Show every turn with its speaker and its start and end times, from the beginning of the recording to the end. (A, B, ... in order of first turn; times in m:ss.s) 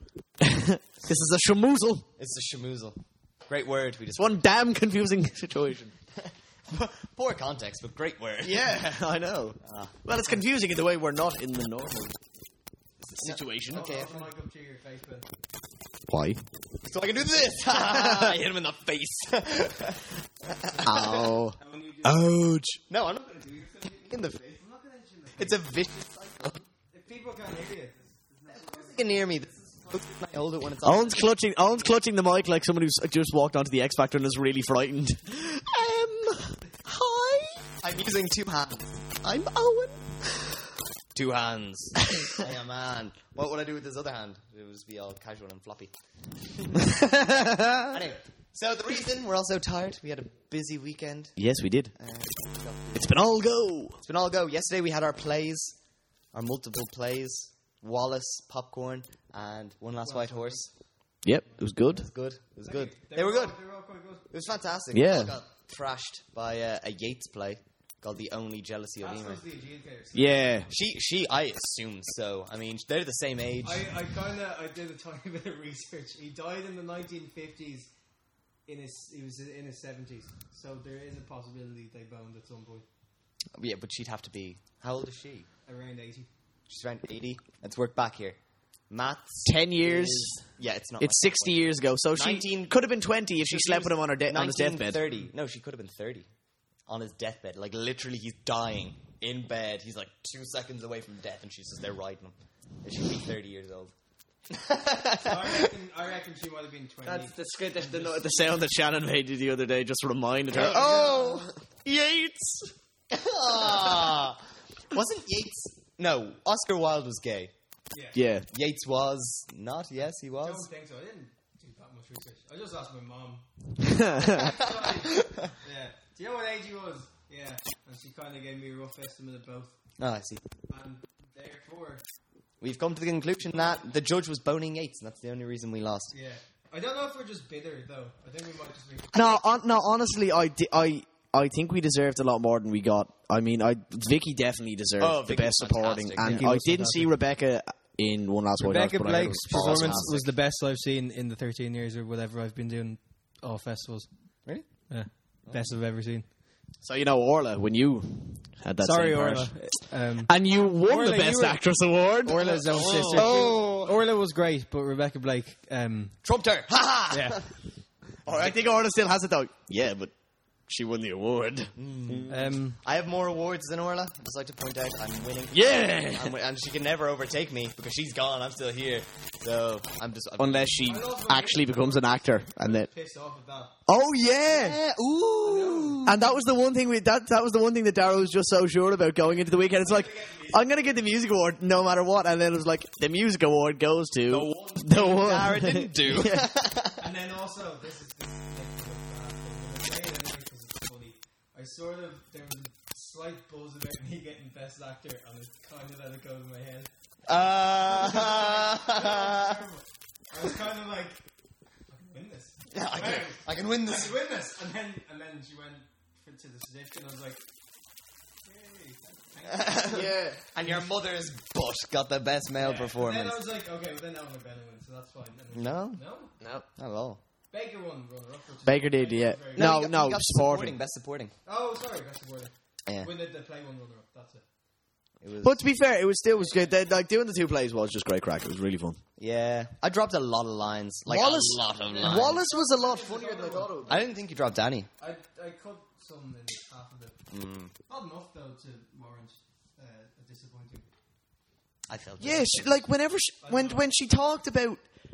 0:00.4-0:02.1 A
0:02.2-0:04.4 B
0:04.2-0:05.9 A
0:06.2-0:08.8 B
0:08.4-0:12.2 A
0:09.6-0:10.0 B
0:13.1-0:14.3 B
0:13.2-0:13.9 A
0:13.7-0:15.3 C
0:16.1-0:16.4 A
0:16.8-0:21.3 B
0:17.7-0:18.4 A
0:20.8-0:22.8 A
0:21.6-0:22.3 C
0:22.9-0:24.6 B
0:24.6-0:25.6 C
0:25.4-0:26.6 B
0:26.9-0:29.0 C
0:28.5-0:31.7 B
0:30.8-0:37.6 A
0:37.8-0:40.3 B
0:41.1-0:45.9 B
0:46.6-0:46.8 B
0:46.9-0:47.9 A
0:47.9-0:51.4 B
0:51.4-0:51.9 A
0:51.9-0:53.2 B
0:53.0-0:54.0 A
0:54.0-0:55.8 B
0:56.3-1:00.7 B
1:00.0-1:00.7 C
1:01.2-1:02.1 A
1:01.9-1:03.6 B
1:02.7-1:04.2 C
1:04.3-1:09.4 B
1:04.9-1:05.3 A
1:09.0-1:10.5 C
1:10.1-1:10.7 A
1:10.7-1:13.8 B
1:13.6-1:17.9 C
1:18.7-1:22.8 C
1:23.6-1:25.5 B
1:25.7-1:26.3 C
1:26.7-1:28.4 B
1:28.9-1:32.8 B
1:29.5-1:30.4 A
1:31.0-1:35.0 A
1:33.5-1:36.3 B
1:36.9-1:43.9 B
1:44.5-1:45.7 B
1:45.0-1:48.2 C
1:47.1-1:48.2 B
1:47.5-1:52.7 A
1:50.5-1:51.5 B
1:50.6-1:51.5 C
1:53.1-1:57.5 B
1:57.9-1:58.2 C
1:58.1-1:58.5 A
1:58.5-2:00.7 B
2:00.4-2:03.4 C
2:03.8-2:04.6 A
2:04.3-2:05.5 B
2:04.3-2:09.7 C
2:10.0-2:10.4 B
2:10.7-2:12.0 C
2:12.6-2:16.1 B
2:13.4-2:13.8 C
2:16.1-2:19.2 C
2:19.1-2:30.2 A
2:25.0-2:26.5 B
2:26.2-2:27.1 C
2:28.6-2:34.1 C
2:29.4-2:30.3 B
2:34.6-2:36.2 C
2:36.8-2:39.5 A
2:38.8-2:46.2 C
2:40.2-2:43.6 A
2:42.4-2:44.0 B
2:46.2-2:47.5 B
2:47.1-2:47.4 C
2:48.2-2:48.6 B
2:48.3-2:50.1 A
2:50.7-2:52.4 A
2:51.8-3:00.9 B
2:52.3-2:52.8 C
2:55.5-2:56.3 A
3:00.4-3:02.9 A
3:00.8-3:03.7 C
3:03.9-3:04.8 A
3:04.3-3:06.2 B
3:05.4-3:06.1 C
3:06.1-3:16.5 A
3:14.3-3:17.0 B
3:17.0-3:26.9 C
3:27.3-3:29.6 B
3:27.9-3:31.2 C
3:31.9-3:37.4 C
3:32.7-3:34.2 B
3:38.4-3:40.1 C
3:39.5-3:43.4 B
3:39.9-3:40.4 A
3:42.6-3:46.3 C
3:45.5-3:46.0 B
3:46.4-3:46.7 A
3:46.8-3:47.2 B
3:47.5-3:49.8 C
3:48.7-3:50.8 A
3:49.6-3:51.3 B
3:51.5-3:54.4 C
3:55.2-3:55.6 B
3:55.4-3:59.0 A
3:56.4-3:56.8 C
3:59.2-4:02.4 B
4:01.1-4:04.0 A
4:01.8-4:04.0 C
4:03.9-4:04.9 B
4:05.0-4:07.2 C
4:07.3-4:07.7 B
4:07.9-4:10.9 C
4:11.9-4:12.8 B
4:12.2-4:14.8 A
4:13.4-4:13.8 C